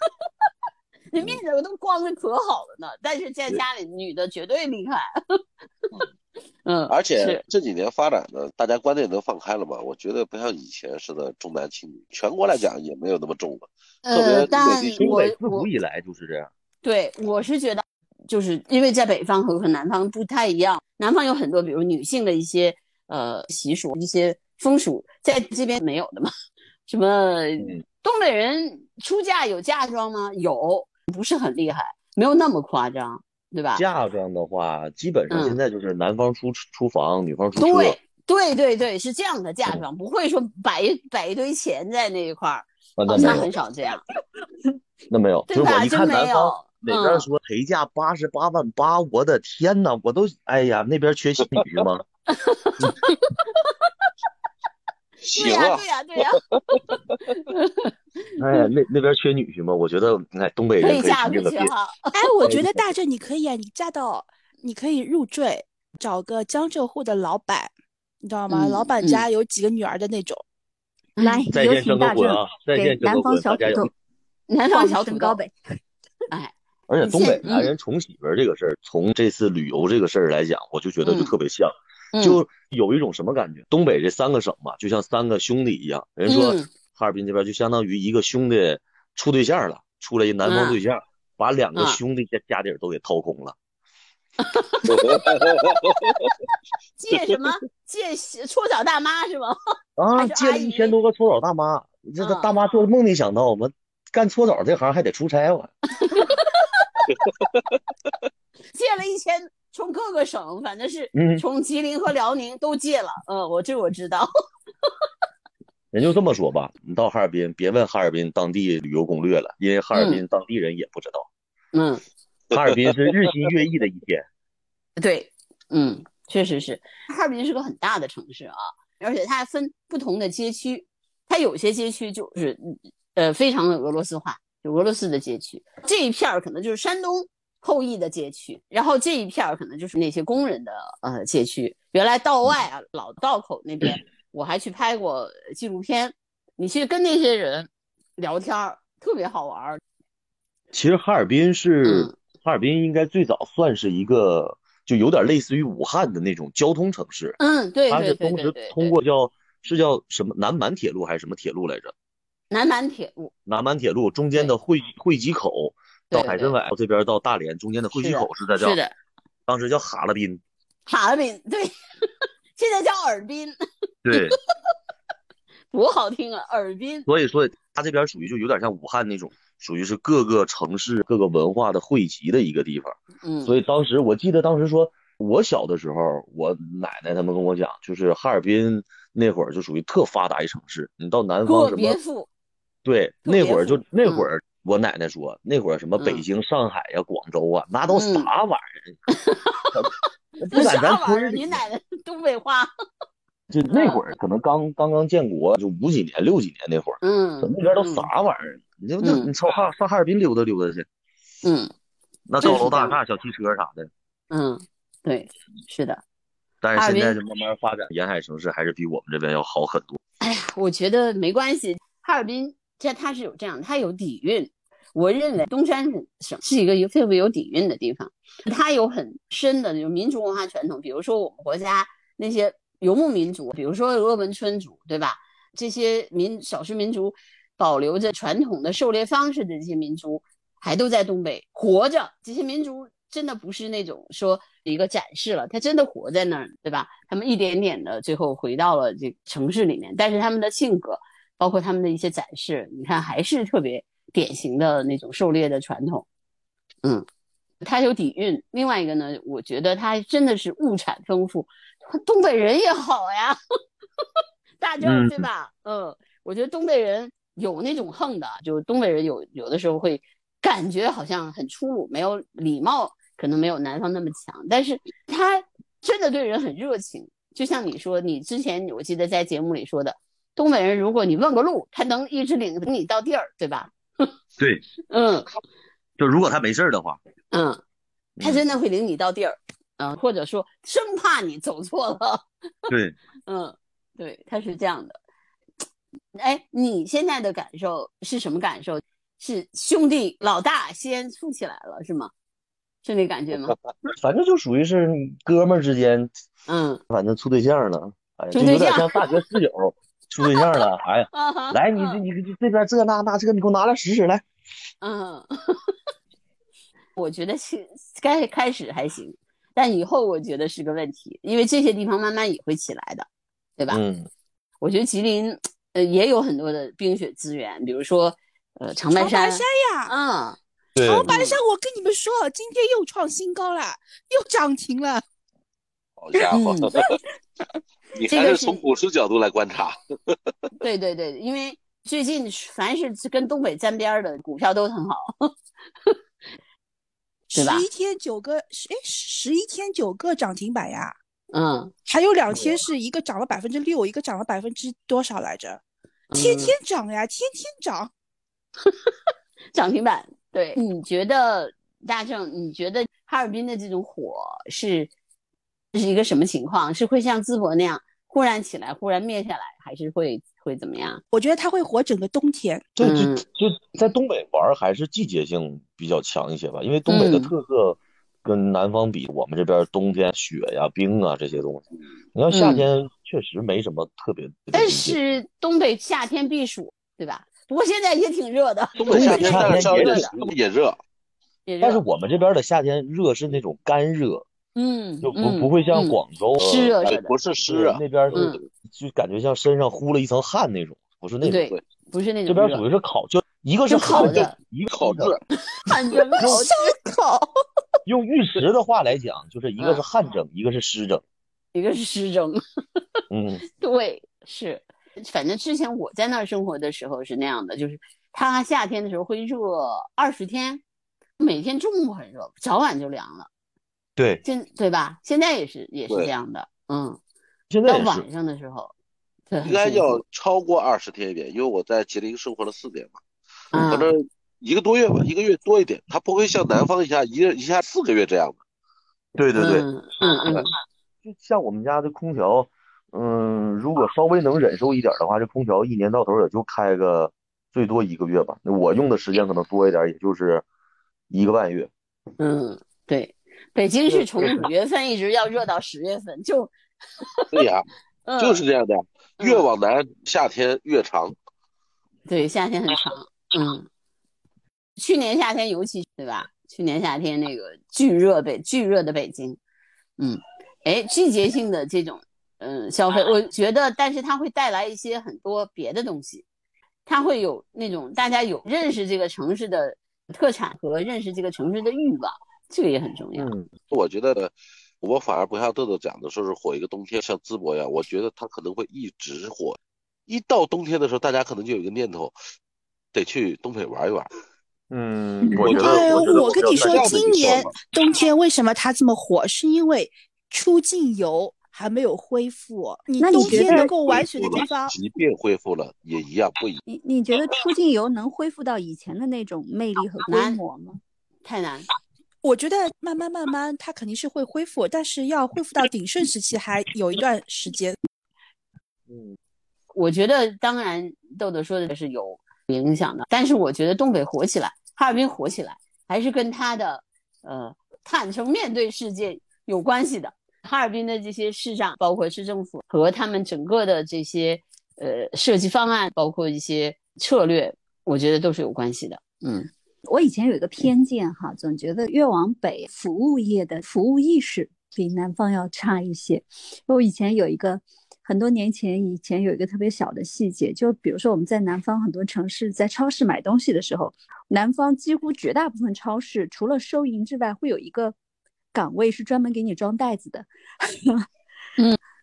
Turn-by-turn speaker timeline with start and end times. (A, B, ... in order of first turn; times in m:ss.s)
0:01.1-0:05.4 A
0:06.6-0:07.4 A
0:06.9-0:15.1 B
0:14.0-0:15.7 A
0:14.9-0:16.5 C
0:16.8-0:26.3 A
0:26.9-0:33.8 A
0:33.8-0:38.0 C
0:35.3-0:35.6 A
0:37.6-0:44.1 A
0:43.0-0:43.5 C
0:45.1-0:52.0 C
0:45.5-0:47.3 A
0:52.3-0:53.5 A
0:55.2-0:55.8 B
0:55.3-0:57.9 A
0:58.4-1:01.7 C
1:00.8-1:02.1 A
1:02.1-1:10.4 D
1:02.4-1:02.9 C
1:08.5-1:09.2 A
1:11.2-1:11.4 A
1:11.2-1:13.9 E
1:11.5-1:13.9 C
1:14.5-1:15.4 A
1:14.7-1:15.5 E
1:16.3-1:17.7 A
1:16.9-1:33.6 C
1:21.0-1:21.3 A
1:22.1-1:22.4 A
1:26.3-1:26.7 A
1:30.4-1:30.8 A
1:34.4-1:36.2 A
1:34.9-1:36.0 B
1:37.0-1:39.6 A
1:40.0-1:46.3 C
1:40.2-1:40.9 A
1:42.2-1:42.5 A
1:46.0-1:47.1 A
1:48.7-1:54.3 A
1:51.1-1:51.4 C
1:55.9-2:01.3 C
1:59.9-2:00.2 A
2:01.7-2:02.0 A
2:02.5-2:04.2 C
2:05.0-2:29.8 A
2:30.7-2:37.4 C
2:31.8-2:32.1 A
2:37.4-2:39.0 A
2:37.9-2:41.9 C
2:42.5-2:43.3 A
2:43.5-2:48.8 C
2:46.1-2:46.6 A
2:48.0-2:48.9 A
2:49.5-2:50.4 C
2:50.9-2:51.7 A
2:52.6-2:53.6 A
2:54.0-2:54.4 C
2:55.7-2:57.1 A
2:57.1-3:12.0 C
3:03.2-3:03.6 A
3:11.4-3:12.3 A
3:12.8-3:19.0 C
3:13.2-3:14.3 A
3:16.0-3:16.2 A
3:17.9-3:18.3 A
3:19.1-3:19.7 A
3:19.7-3:21.6 C
3:20.5-3:22.7 A
3:23.5-3:30.9 C
3:23.7-3:24.0 A
3:27.0-3:28.1 A
3:29.0-3:29.3 A
3:31.4-3:31.7 A
3:32.3-3:33.9 C
3:32.4-3:33.0 A
3:34.3-3:36.0 A
3:36.6-3:40.0 C
3:36.8-3:37.2 A
3:40.2-4:16.1 A
4:17.6-4:23.4 A
4:24.6-4:44.1 A
4:24.8-4:25.3 C
4:44.4-4:44.6 C
4:44.9-4:45.3 A
4:46.0-4:47.0 C
4:47.3-4:47.6 A
4:48.2-4:48.4 C
4:48.2-4:52.7 A
4:52.7-4:53.0 C
4:53.3-4:55.0 A
4:56.2-5:02.1 A
5:02.8-5:03.6 A
5:03.9-5:06.1 C
5:06.5-5:06.8 A
5:06.9-5:14.2 C
5:08.3-5:09.0 A
5:10.2-5:10.5 A
5:11.1-5:12.0 A
5:14.8-5:15.7 A
5:17.0-5:23.1 A
5:23.7-5:24.1 C
5:24.6-5:30.4 A
5:28.9-5:29.9 D
5:30.8-5:31.1 C
5:30.8-5:35.0 D
5:31.1-5:31.4 A
5:36.0-5:37.0 B
5:36.3-5:36.7 A
5:37.9-5:39.8 B
5:38.1-5:38.6 A
5:40.6-5:45.3 A
5:47.3-5:51.0 D
5:47.3-5:47.7 A
5:51.3-5:51.7 A
5:51.9-5:55.6 D
5:52.3-5:52.6 A
5:56.1-5:56.6 A
5:56.1-5:57.9 D
5:59.5-6:04.9 A
6:05.7-6:11.0 A
6:11.1-6:12.7 D
6:12.8-6:25.0 C
6:12.8-6:13.2 A
6:16.9-6:17.3 A
6:22.3-6:22.7 A
6:24.5-6:30.2 A
6:28.8-6:30.8 B
6:28.9-6:30.3 C
6:31.5-6:31.8 A
6:31.6-6:34.2 C
6:34.6-6:37.1 A
6:35.0-6:36.9 C
6:36.8-6:38.4 B
6:37.4-6:41.5 C
6:38.1-6:38.4 A
6:41.2-6:42.6 A
6:42.3-6:45.2 C
6:43.7-6:44.4 A
6:43.9-6:45.2 B
6:45.5-6:46.8 A
6:46.1-6:47.3 D
6:47.9-6:51.0 C
6:51.5-6:52.4 A
6:53.1-6:53.4 C
6:53.5-7:00.6 A
7:01.2-7:03.3 A
7:04.0-7:04.2 C
7:04.2-7:07.0 A
7:07.5-7:08.1 C
7:07.7-7:08.7 A
7:09.3-7:10.0 A
7:09.4-7:13.0 B
7:13.5-7:13.9 A
7:13.5-7:18.4 B
7:19.2-7:20.5 C
7:19.4-7:20.5 A
7:21.0-7:30.4 C
7:31.1-7:31.7 C
7:32.2-7:36.5 A
7:37.3-7:37.7 B
7:38.1-7:38.4 A
7:38.2-7:41.2 B
7:39.2-7:39.5 A
7:42.1-7:43.7 A
7:44.8-7:49.4 A
7:50.0-7:56.2 A
7:56.9-8:03.3 A
8:03.2-8:03.5 C
8:03.7-8:12.1 B
8:12.9-8:14.1 B
8:14.7-8:17.3 C
8:15.2-8:24.8 D
8:15.4-8:17.6 B
8:23.0-8:23.7 E
8:23.2-8:26.6 B
8:26.7-8:30.8 E
8:30.1-8:30.4 A
8:31.2-8:31.7 A
8:32.2-8:37.8 D
8:38.9-8:39.2 C
8:39.7-8:59.5 A
8:59.9-9:18.0 E
9:18.5-9:21.1 E